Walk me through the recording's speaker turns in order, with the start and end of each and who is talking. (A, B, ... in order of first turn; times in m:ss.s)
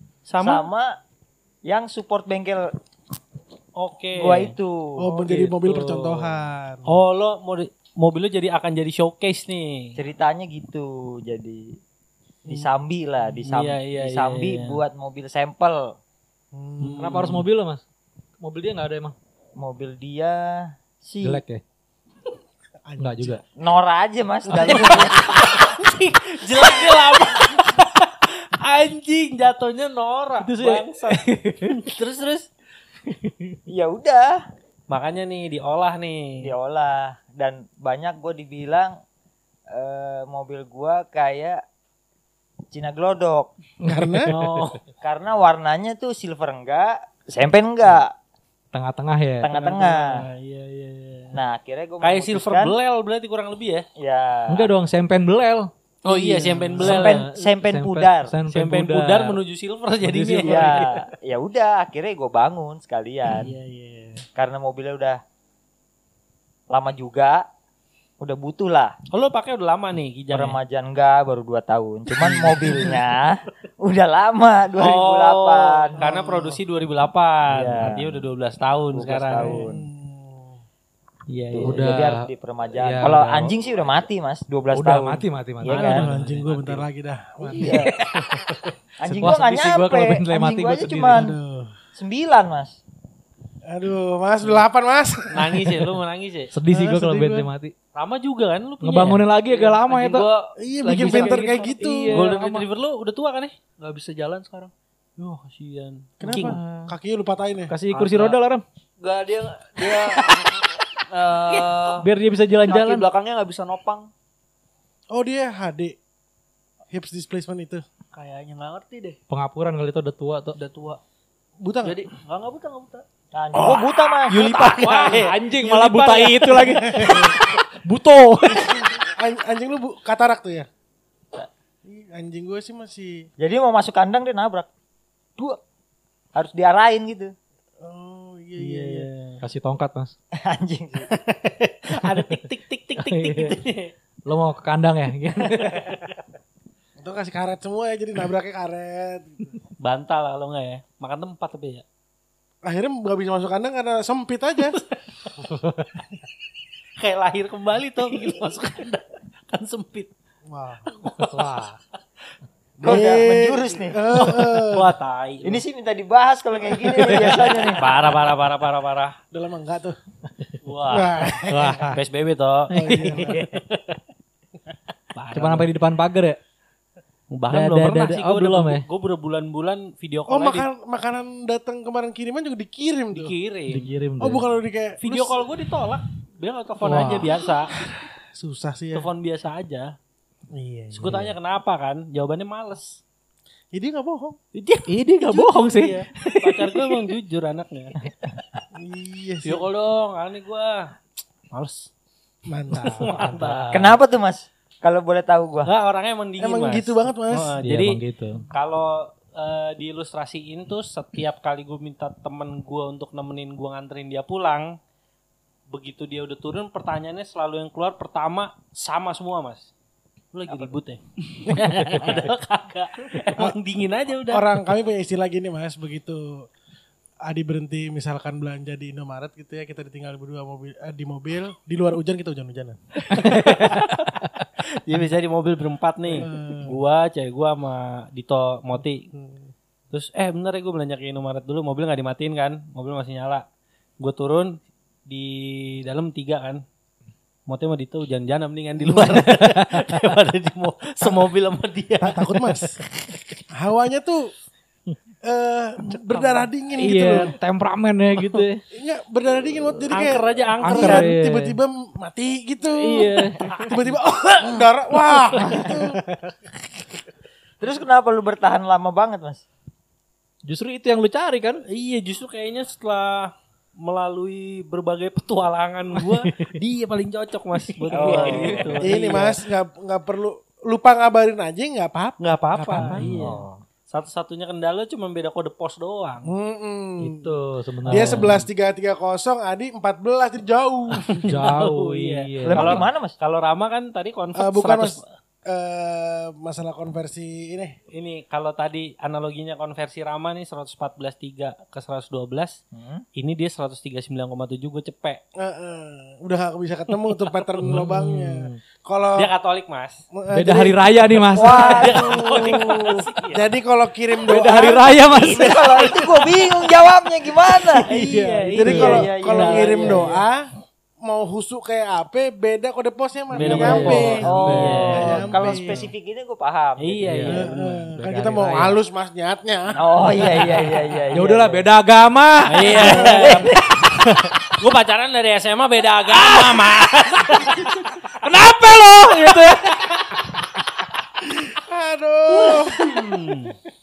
0:00.3-0:00.7 A
0:00.4-0:01.0 B
0:01.6-0:02.7 B
0:03.7-0:04.6 A
0:04.1-0:05.0 B
0:05.0-0:06.9 C
0:05.1-0:05.5 A
0:05.6-0:06.3 D
0:06.9-0:10.0 A
0:10.0-0:11.8 B
0:12.5-0:16.0 B
0:13.5-0:14.8 A
0:16.5-0:17.2 C
0:16.8-0:17.4 A
0:17.0-0:17.8 D
0:18.4-0:19.1 D
0:19.6-0:21.4 B
0:21.2-0:21.6 D
0:22.9-0:23.4 C
0:23.0-0:23.4 D
0:23.6-0:25.4 B
0:24.5-0:32.5 A
0:24.6-0:25.1 D
0:30.4-0:31.8 D
0:33.1-0:33.6 D
0:33.7-0:34.4 B
0:34.9-0:36.5 A
0:36.4-0:39.0 B
0:39.7-0:41.6 B
0:42.7-0:43.5 B
0:43.9-0:44.3 C
0:43.9-0:44.6 D
0:44.3-0:44.8 A
0:45.0-0:48.1 B
0:48.7-0:49.5 D
0:49.4-0:50.2 B
0:49.5-0:51.4 A
0:51.3-0:52.8 B
0:52.0-0:53.9 A
0:54.0-0:54.7 B
0:54.5-0:55.7 D
0:56.0-0:57.3 A
0:56.1-0:56.7 E
0:56.7-0:58.4 B
0:56.8-0:59.4 D
0:58.5-1:01.0 A
1:00.0-1:00.9 D
1:00.4-1:03.5 B
1:03.3-1:04.2 A
1:04.4-1:05.2 B
1:06.7-1:07.4 B
1:08.2-1:09.0 B
1:09.1-1:10.6 A
1:10.3-1:16.0 B
1:12.3-1:13.0 A
1:14.8-1:19.6 A
1:16.0-1:16.6 C
1:17.5-1:18.1 B
1:18.9-1:19.8 B
1:19.4-1:20.6 C
1:21.3-1:21.8 A
1:21.5-1:26.1 B
1:21.6-1:22.2 D
1:22.8-1:23.6 D
1:24.7-1:26.8 D
1:25.7-1:27.8 C
1:25.8-1:26.3 A
1:27.4-1:27.9 B
1:28.1-1:28.6 A
1:29.0-1:31.4 B
1:29.0-1:29.4 C
1:29.2-1:31.3 D
1:31.1-1:31.7 C
1:32.0-1:32.8 B
1:33.7-1:35.9 C
1:35.3-1:36.5 A
1:36.5-1:37.7 D
1:36.7-1:37.5 C
1:38.0-1:39.3 A
1:38.8-1:40.3 D
1:39.4-1:41.8 E
1:40.6-1:42.2 C
1:40.8-1:42.7 D
1:42.1-1:43.5 A
1:43.8-1:44.7 E
1:45.2-1:46.6 A
1:46.2-1:47.7 C
1:46.2-1:46.9 D
1:47.7-1:48.6 D
1:47.9-1:48.4 A
1:49.0-1:52.1 E
1:49.8-1:50.2 A
1:52.0-1:53.1 D
1:52.6-1:54.1 E
1:55.1-1:56.0 C
1:56.9-1:57.8 C
1:58.1-1:59.2 E
1:59.3-2:00.6 D
2:00.6-2:01.0 E
2:01.6-2:02.0 C
2:01.8-2:03.0 E
2:03.3-2:04.6 B
2:03.6-2:06.6 A
2:04.3-2:06.4 E
2:04.6-2:09.0 D
2:06.7-2:07.5 C
2:08.6-2:10.7 C
2:11.8-2:13.3 C
2:13.4-2:14.7 B
2:16.4-2:17.4 B
2:17.8-2:19.1 C
2:18.6-2:19.4 A
2:19.4-2:20.1 D
2:20.4-2:21.1 B
2:21.8-2:23.9 A
2:21.9-2:22.2 D
2:23.0-2:23.6 D
2:24.2-2:26.0 D
2:25.6-2:26.0 A
2:27.0-2:29.5 C
2:29.8-2:31.8 A
2:32.6-2:34.8 C
2:34.7-2:35.7 A
2:37.0-2:40.1 A
2:40.5-2:40.8 C
2:40.9-2:41.6 A
2:41.2-2:41.8 D
2:42.8-2:44.9 C
2:42.8-2:44.0 B
2:44.1-2:45.6 A
2:45.4-2:48.0 B
2:47.0-2:49.2 A
2:49.3-2:50.0 C
2:50.6-2:54.0 A
2:50.9-2:51.9 C
2:52.7-2:53.4 C
2:55.1-2:55.7 A
2:55.3-2:56.4 D
2:57.3-3:00.7 A
2:57.5-2:58.9 D
3:00.3-3:03.3 C
3:03.1-3:03.9 A
3:03.7-3:04.5 D
3:04.2-3:05.4 C
3:05.0-3:07.8 A
3:06.8-3:07.4 D
3:07.8-3:09.1 C
3:08.9-3:09.9 A
3:10.6-3:11.2 C
3:11.0-3:11.3 D
3:11.0-3:13.0 A
3:13.7-3:14.4 C
3:14.6-3:17.9 A
3:14.9-3:15.9 D
3:15.3-3:15.9 E
3:18.8-3:19.6 C
3:19.4-3:20.9 A
3:21.5-3:21.9 A
3:22.5-3:23.4 C
3:22.7-3:24.0 D
3:23.0-3:23.9 A
3:23.7-3:25.7 B
3:25.7-3:34.8 A
3:26.4-3:27.6 C
3:27.6-3:28.5 D
3:35.7-3:39.7 A
3:40.3-3:44.6 A
3:41.5-3:42.0 D
3:44.3-3:46.5 C
3:47.2-3:52.8 C
3:53.1-3:54.2 A
3:53.1-3:54.4 D
3:54.8-3:59.1 A
3:56.2-3:56.8 C
3:59.1-3:59.5 C
3:59.9-4:03.4 A
4:04.0-4:04.5 A
4:05.1-4:06.6 A
4:07.5-4:12.7 A
4:08.9-4:09.3 C
4:09.4-4:09.9 D
4:12.0-4:12.8 C
4:13.6-4:14.3 C
4:15.3-4:17.3 C
4:16.1-4:16.4 A
4:16.8-4:18.6 D
4:18.7-4:26.0 C
4:19.9-4:21.1 A
4:20.6-4:21.6 D
4:22.7-4:23.5 D
4:23.4-4:23.8 A
4:25.0-4:25.8 A
4:27.6-4:29.4 B
4:30.4-4:31.6 D
4:31.7-4:39.4 A
4:36.1-4:36.6 D
4:37.9-4:38.3 E
4:37.9-4:38.9 B
4:38.2-4:43.1 C
4:42.2-4:46.3 A
4:42.8-4:43.4 D
4:43.2-4:43.6 B
4:46.2-4:47.3 C
4:47.0-4:48.4 D
4:47.8-4:51.2 C
4:47.9-4:48.4 A
4:51.0-4:55.0 A
4:51.3-4:52.8 D
4:52.5-4:53.2 B
4:54.4-4:57.8 C
4:57.9-5:02.6 A
5:02.7-5:03.0 B
5:03.2-5:05.2 A
5:05.4-5:09.3 C
5:07.6-5:08.6 D
5:09.2-5:10.0 A
5:10.1-5:14.8 C
5:10.3-5:11.9 D
5:11.3-5:12.3 B
5:11.5-5:13.5 A
5:14.3-5:15.6 D
5:15.1-5:16.3 A
5:15.1-5:17.9 B
5:17.6-5:20.2 A
5:17.9-5:20.5 C
5:18.6-5:20.2 B
5:18.7-5:19.0 D
5:21.0-5:25.8 C
5:23.3-5:25.3 A
5:23.4-5:25.9 D
5:23.5-5:27.0 B
5:26.8-5:27.7 A
5:27.0-5:28.8 D
5:27.3-5:30.7 C
5:29.8-5:31.6 B
5:31.1-5:33.3 D
5:32.5-5:33.5 A
5:32.8-5:33.5 C
5:32.8-5:33.7 B
5:34.0-5:34.3 D
5:34.5-5:40.1 A
5:38.3-5:39.7 D
5:41.2-5:43.4 C
5:42.3-5:43.6 A